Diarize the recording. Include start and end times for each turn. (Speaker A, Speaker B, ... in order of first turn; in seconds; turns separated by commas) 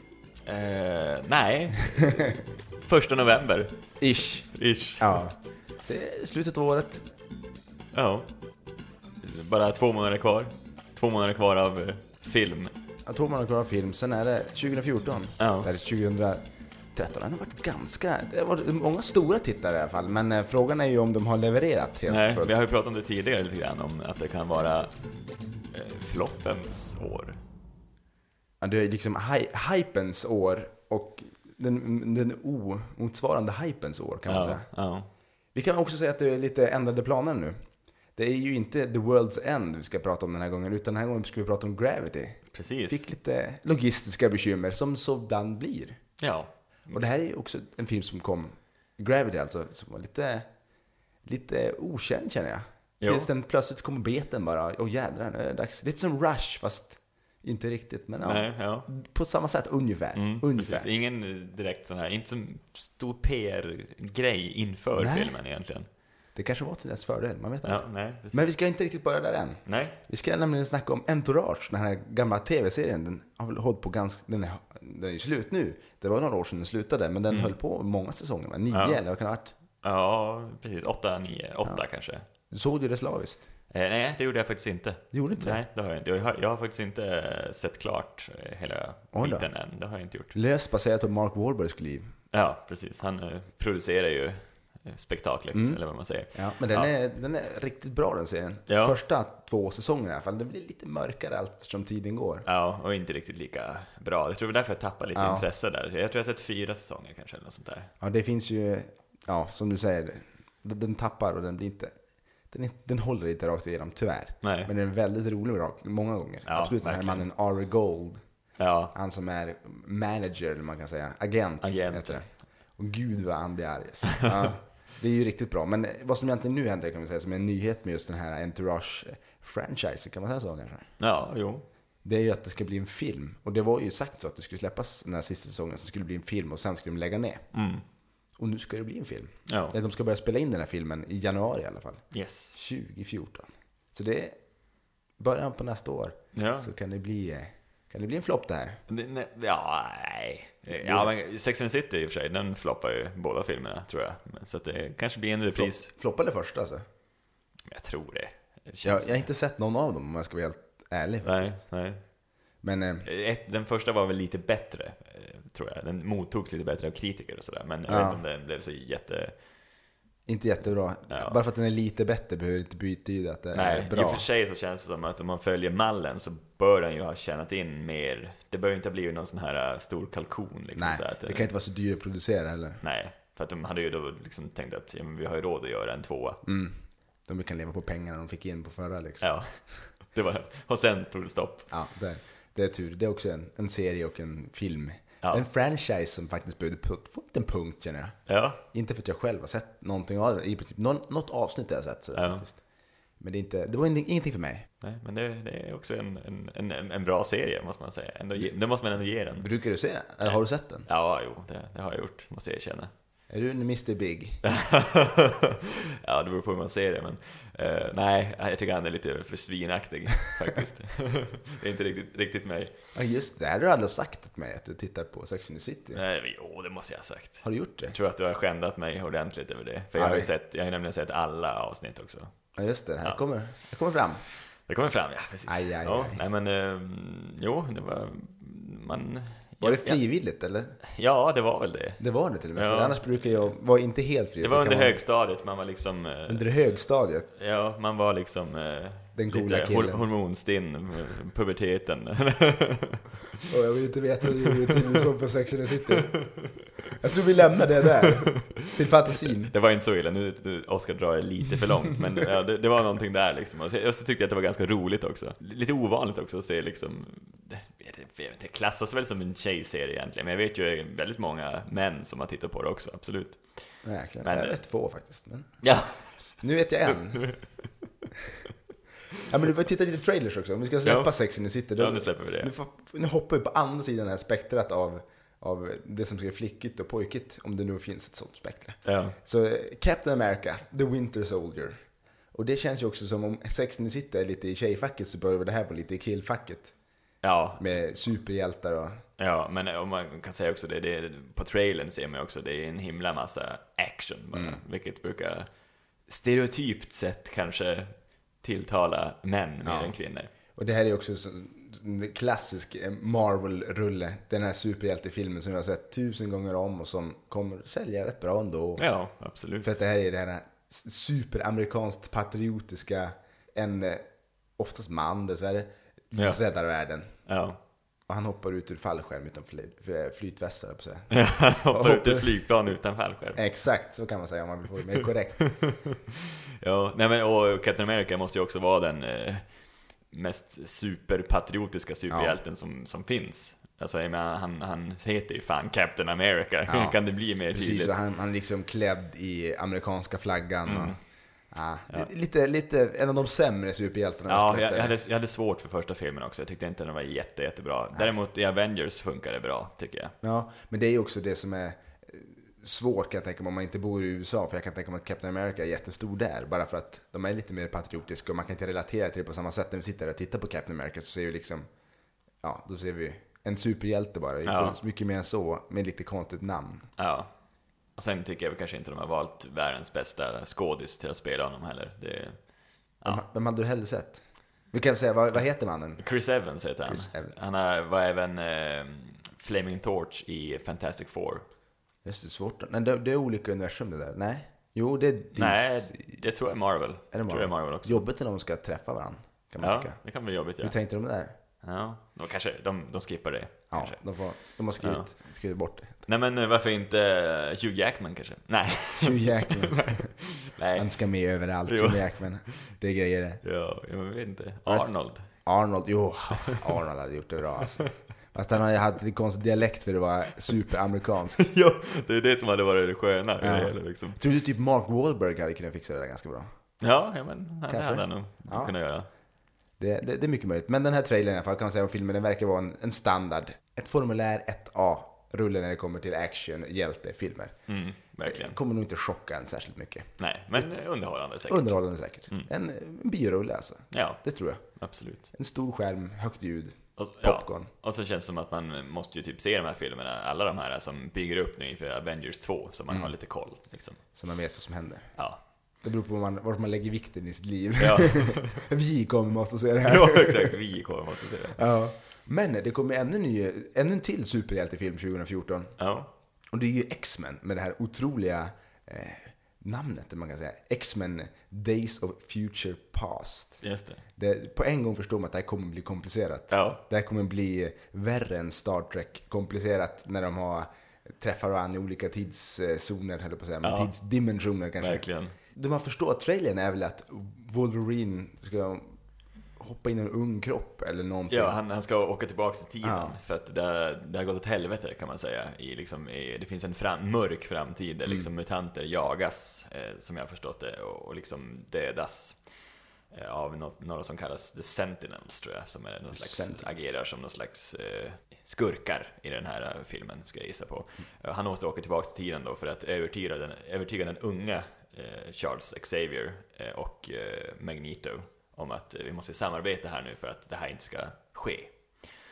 Speaker A: 0.5-3.7, Speaker B: 2.0-2.3, Speaker B: 4.0-7.0, Speaker A: 4.5-5.2, Speaker A: 7.9-8.3, Speaker A: 9.2-12.7, Speaker B: 13.1-22.6, Speaker A: 15.4-15.7, Speaker A: 22.1-24.9, Speaker A: 25.7-27.4, Speaker B: 28.6-34.7, Speaker A: 34.3-35.1, Speaker B: 35.5-37.6, Speaker B: 38.2-46.0, Speaker A: 42.5-43.0, Speaker A: 46.2-46.5, Speaker B: 46.9-50.5, Speaker B: 51.3-60.9, Speaker A: 53.0-53.3, Speaker A: 58.2-58.9, Speaker A: 60.1-65.9, Speaker B: 65.0-65.4, Speaker B: 66.3-79.5, Speaker A: 67.6-68.4, Speaker A: 69.7-70.0, Speaker A: 78.7-79.0, Speaker A: 79.8-82.2, Speaker B: 82.5-83.5, Speaker A: 83.7-90.4, Speaker B: 85.1-85.6, Speaker B: 89.1-89.5, Speaker B: 90.3-92.1, Speaker A: 92.3-96.9, Speaker B: 95.5-95.8, Speaker B: 96.3-102.5, Speaker A: 98.7-99.0, Speaker A: 102.5-107.9, Speaker B: 105.2-105.5, Speaker B: 108.0-111.9, Speaker B: 112.5-118.2, Speaker A: 114.4-114.7, Speaker A: 116.5-117.3, Speaker A: 118.6-118.9, Speaker B: 118.9-122.3, Speaker A: 121.6-122.2, Speaker B: 122.8-130.9, Speaker A: 124.2-124.5, Speaker A: 131.0-131.6, Speaker B: 132.1-137.4, Speaker A: 137.5-137.8, Speaker B: 138.4-142.0, Speaker A: 139.5-139.8, Speaker A: 142.1-142.6, Speaker B: 142.5-144.4, Speaker B: 145.2-148.8, Speaker A: 146.3-146.7, Speaker A: 148.9-155.9, Speaker B: 150.7-151.1, Speaker B: 155.5-156.8, Speaker A: 157.7-159.3, Speaker B: 158.8-161.6, Speaker A: 161.2-162.0, Speaker B: 162.6-163.1, Speaker A: 163.1-169.3, Speaker B: 167.9-168.2, Speaker B: 170.3-174.2, Speaker A: 171.1-171.4, Speaker A: 173.5-181.5, Speaker B: 180.8-182.8, Speaker A: 182.8-186.4, Speaker B: 186.4-189.2, Speaker A: 189.2-189.6, Speaker A: 190.1-191.7, Speaker B: 191.7-198.2, Speaker A: 198.3-198.6, Speaker B: 198.7-202.6, Speaker A: 202.2-202.5, Speaker B: 203.2-204.7, Speaker A: 204.8-209.5, Speaker B: 209.4-210.9, Speaker A: 210.2-212.9, Speaker B: 213.3-214.4, Speaker A: 214.4-222.7, Speaker B: 222.9-226.0, Speaker A: 225.9-232.3, Speaker B: 227.4-227.9, Speaker B: 230.0-230.3, Speaker B: 232.6-234.2, Speaker A: 234.5-240.0, Speaker B: 235.5-236.2, Speaker B: 239.6-240.8, Speaker A: 240.8-242.0, Speaker B: 242.0-245.0, Speaker A: 242.6-243.5, Speaker A: 244.4-246.5, Speaker B: 246.3-247.3, Speaker A: 247.3-253.4, Speaker B: 249.2-250.1, Speaker B: 253.5-256.1, Speaker A: 254.7-255.0, Speaker A: 255.9-256.6, Speaker B: 257.0-259.5, Speaker A: 258.0-273.4, Speaker B: 273.8-275.6, Speaker A: 274.2-274.6, Speaker A: 275.6-276.1, Speaker B: 276.4-277.3, Speaker A: 276.9-277.5, Speaker B: 279.3-291.8, Speaker A: 280.8-281.1, Speaker A: 281.8-282.5, Speaker A: 288.9-289.2, Speaker B: 292.3-296.7, Speaker A: 297.2-297.7, Speaker B: 297.6-299.0, Speaker A: 299.2-305.5, Speaker B: 304.3-304.6, Speaker A: 306.1-310.3, Speaker B: 309.6-309.9, Speaker B: 310.6-318.8, Speaker A: 318.8-319.8, Speaker B: 319.6-324.0, Speaker B: 324.6-327.1, Speaker A: 327.3-327.6, Speaker B: 328.1-331.1, Speaker A: 331.1-333.4, Speaker B: 331.7-332.3, Speaker B: 333.4-335.5, Speaker A: 335.4-339.5, Speaker A: 340.1-347.9, Speaker B: 342.1-342.4, Speaker B: 346.7-347.0, Speaker B: 347.5-351.0, Speaker A: 350.7-351.0, Speaker B: 351.5-355.0, Speaker A: 354.3-360.1, Speaker B: 360.2-371.7, Speaker B: 372.4-376.9, Speaker A: 374.4-374.8, Speaker A: 377.0-377.3, Speaker A: 378.0-382.4, Speaker B: 383.1-384.2, Speaker B: 384.7-386.0, Speaker A: 386.0-391.4, Speaker B: 386.9-387.4, Speaker B: 392.1-396.0, Speaker A: 395.4-398.0, Speaker B: 397.1-400.0, Speaker A: 399.6-400.8, Speaker B: 400.6-401.4, Speaker A: 401.6-404.0, Speaker B: 403.7-406.1, Speaker A: 404.8-405.1, Speaker A: 406.1-411.0, Speaker B: 409.0-410.1, Speaker B: 410.8-413.4, Speaker A: 411.7-412.6, Speaker A: 413.4-415.3, Speaker B: 414.7-421.4, Speaker A: 416.4-416.6, Speaker A: 421.3-424.2, Speaker B: 423.4-426.5, Speaker A: 426.8-429.1, Speaker B: 427.7-428.7, Speaker B: 429.8-437.6, Speaker A: 437.7-438.6, Speaker B: 438.2-440.7, Speaker A: 440.2-441.8, Speaker B: 441.5-444.6, Speaker A: 443.9-444.2, Speaker A: 444.8-445.3, Speaker B: 445.3-447.7, Speaker A: 447.0-454.0, Speaker B: 454.1-455.1, Speaker B: 455.8-460.6, Speaker A: 457.8-458.6, Speaker A: 459.8-461.6, Speaker B: 461.5-465.7, Speaker A: 465.8-466.1, Speaker B: 466.5-473.6, Speaker A: 473.6-474.0, Speaker B: 474.2-489.0, Speaker A: 476.5-476.8, Speaker A: 483.6-483.9, Speaker A: 484.8-485.4, Speaker B: 489.6-491.6, Speaker A: 491.3-502.4, Speaker B: 492.8-493.1, Speaker A: 503.1-521.8, Speaker B: 506.1-506.9